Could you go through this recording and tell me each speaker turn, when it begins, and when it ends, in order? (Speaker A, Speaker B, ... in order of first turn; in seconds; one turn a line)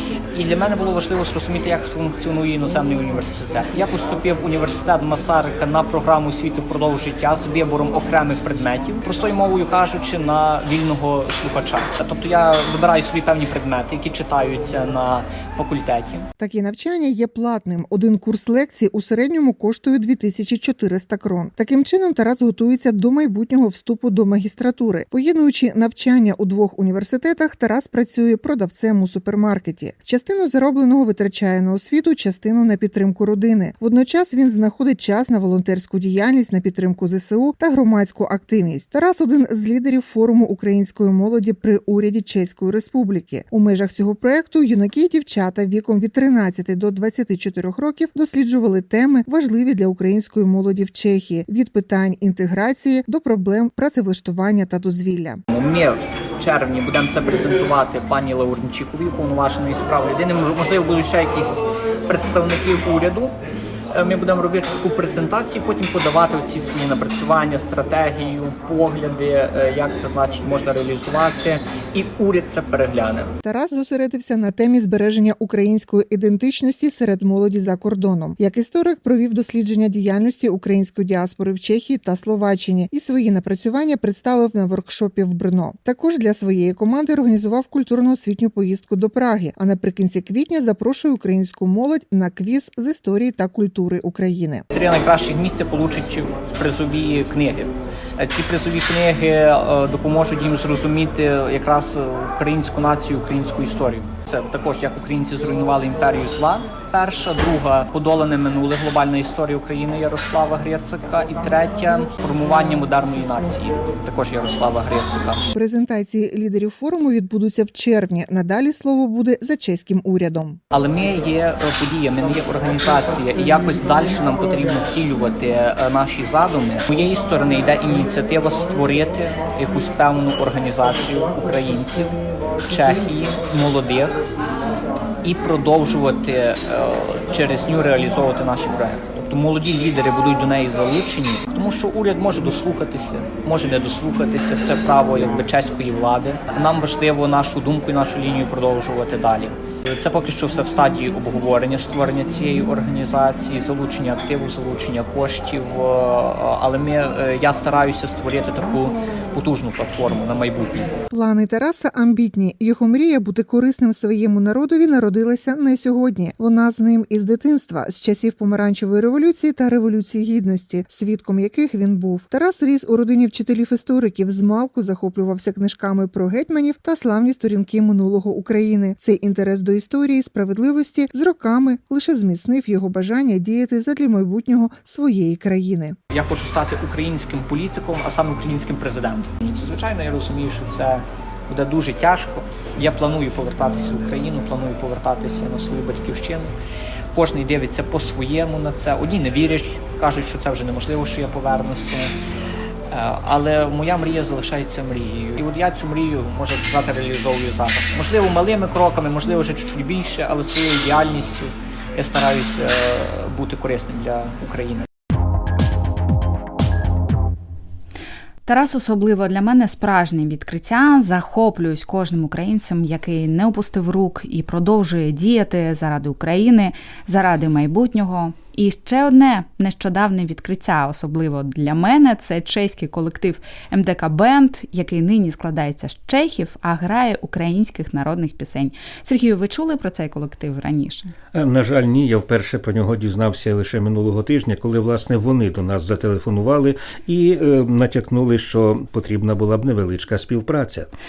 Speaker A: 0.3-16.3
Speaker B: 16.4-55.4
Speaker A: 55.5-63.3
Speaker A: 63.9-73.3
Speaker B: 73.4-94.7
Speaker A: 94.7-115.5
Speaker B: 115.5-120.6
Speaker A: 120.7-134.2
Speaker A: 135.2-161.0
Speaker B: 161.1-186.0
Speaker A: 186.1-196.5
Speaker A: 197.1-202.1
Speaker A: 202.9-214.9
Speaker C: 218.4-241.1
Speaker D: 241.3-250.9